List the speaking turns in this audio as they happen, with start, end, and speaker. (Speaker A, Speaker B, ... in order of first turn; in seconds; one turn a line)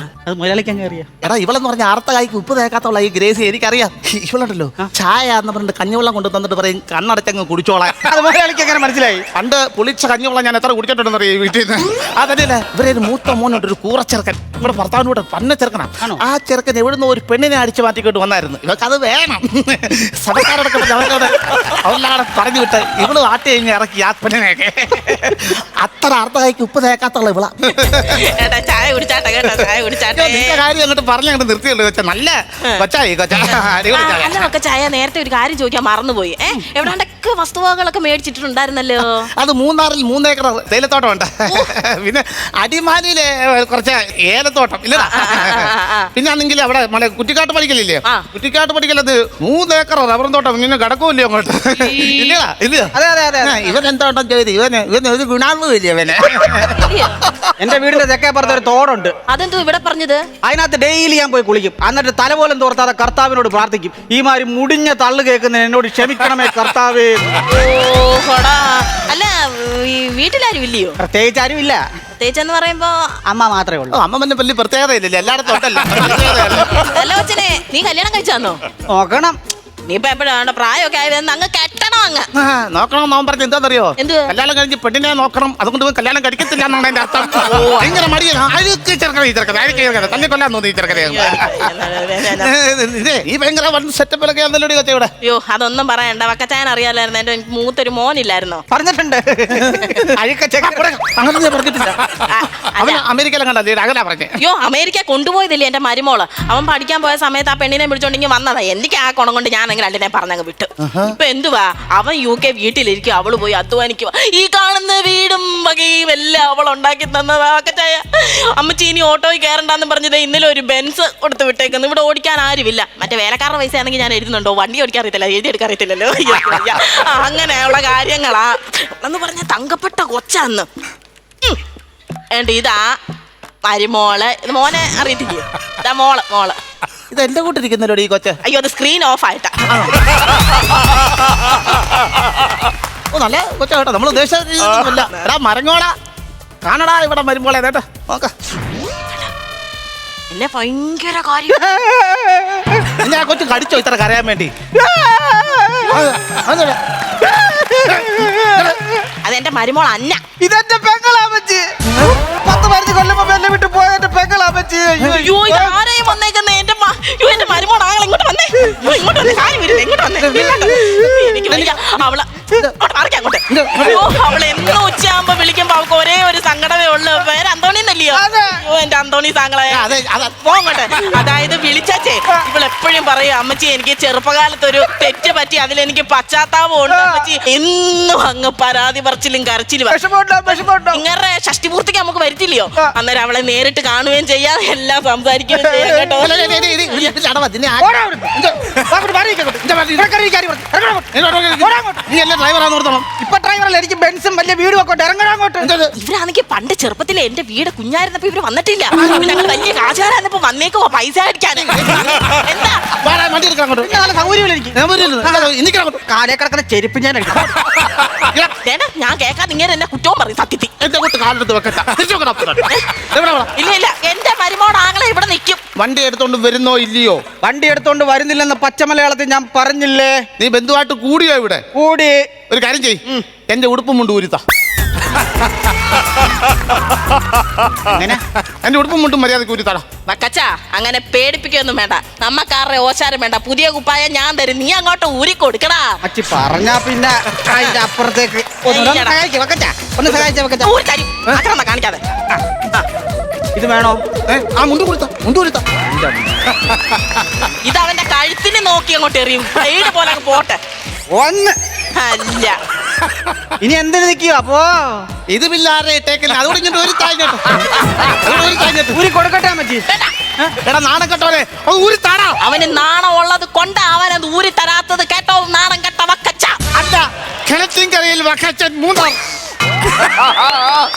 Speaker A: 0.2-1.1
Speaker B: 1.2-8.0
Speaker A: 8.0-9.2
Speaker B: 9.3-28.2
Speaker C: 28.0-30.6
Speaker B: 30.1-34.5
Speaker C: 33.9-39.3
Speaker B: 39.4-57.5
Speaker C: 44.9-46.1
Speaker C: 51.8-52.4
Speaker A: 52.9-53.6
Speaker C: 56.7-57.2
Speaker A: 57.6-59.1
Speaker C: 59.3-60.2
Speaker A: 60.4-67.2
Speaker C: 67.5-71.0
Speaker A: 71.0-71.8
Speaker C: 72.2-73.0
Speaker A: 73.3-74.0
Speaker B: 73.9-76.8
Speaker C: 76.8-78.6
Speaker A: 78.9-79.4
Speaker C: 79.9-82.3
Speaker B: 82.3-91.6
Speaker C: 84.0-84.3
Speaker C: 87.4-88.1
Speaker C: 90.9-92.6
Speaker B: 92.3-95.1
Speaker C: 95.2-98.6
Speaker A: 98.7-100.9
Speaker B: 99.6-100.0
Speaker B: 100.6-104.3
Speaker C: 102.3-103.0
Speaker C: 104.4-130.7
Speaker B: 110.8-111.2
Speaker C: 132.3-132.9
Speaker C: 133.7-136.6
Speaker B: 137.1-138.4
Speaker C: 138.4-139.6
Speaker B: 139.7-140.0
Speaker B: 143.1-145.9
Speaker C: 144.6-145.3
Speaker B: 146.6-148.3
Speaker C: 150.3-151.6
Speaker A: 151.5-152.9
Speaker B: 152.9-154.5
Speaker A: 154.8-156.1
Speaker B: 155.8-156.8
Speaker A: 157.2-159.1
Speaker C: 159.2-160.2
Speaker A: 160.4-161.7
Speaker A: 162.2-165.8
Speaker C: 165.1-197.0
Speaker A: 170.3-171.7
Speaker B: 173.5-174.1
Speaker A: 178.1-178.6
Speaker B: 179.7-180.4
Speaker A: 186.9-187.3
Speaker A: 189.9-191.0
Speaker A: 195.5-196.3
Speaker B: 196.2-198.9
Speaker A: 197.8-198.4
Speaker A: 198.9-202.0
Speaker B: 199.6-200.1
Speaker B: 201.1-203.1
Speaker A: 203.2-205.7
Speaker B: 205.6-205.9
Speaker C: 206.0-212.8
Speaker A: 209.0-209.3
Speaker B: 211.7-212.2
Speaker B: 212.9-213.9
Speaker A: 213.8-215.5
Speaker B: 214.7-216.0
Speaker A: 216.1-217.5
Speaker B: 217.4-218.5
Speaker C: 218.6-220.7
Speaker B: 220.8-223.5
Speaker C: 223.6-225.6
Speaker B: 225.7-227.2
Speaker A: 227.4-230.2
Speaker B: 230.4-231.6
Speaker A: 231.7-232.2
Speaker B: 232.5-234.4
Speaker A: 237.8-238.2
Speaker B: 238.6-239.9
Speaker C: 240.0-245.9
Speaker A: 246.0-250.7
Speaker C: 247.5-247.8
Speaker C: 248.7-249.2
Speaker C: 250.6-252.1
Speaker A: 253.6-254.0
Speaker B: 254.3-255.6
Speaker C: 257.6-260.6
Speaker A: 261.1-261.5
Speaker C: 261.9-262.6
Speaker A: 263.6-265.1
Speaker B: 265.3-269.0
Speaker A: 268.4-269.9
Speaker C: 269.9-270.1
Speaker B: 270.6-272.4
Speaker C: 272.4-276.6
Speaker B: 276.7-279.2
Speaker B: 280.1-280.7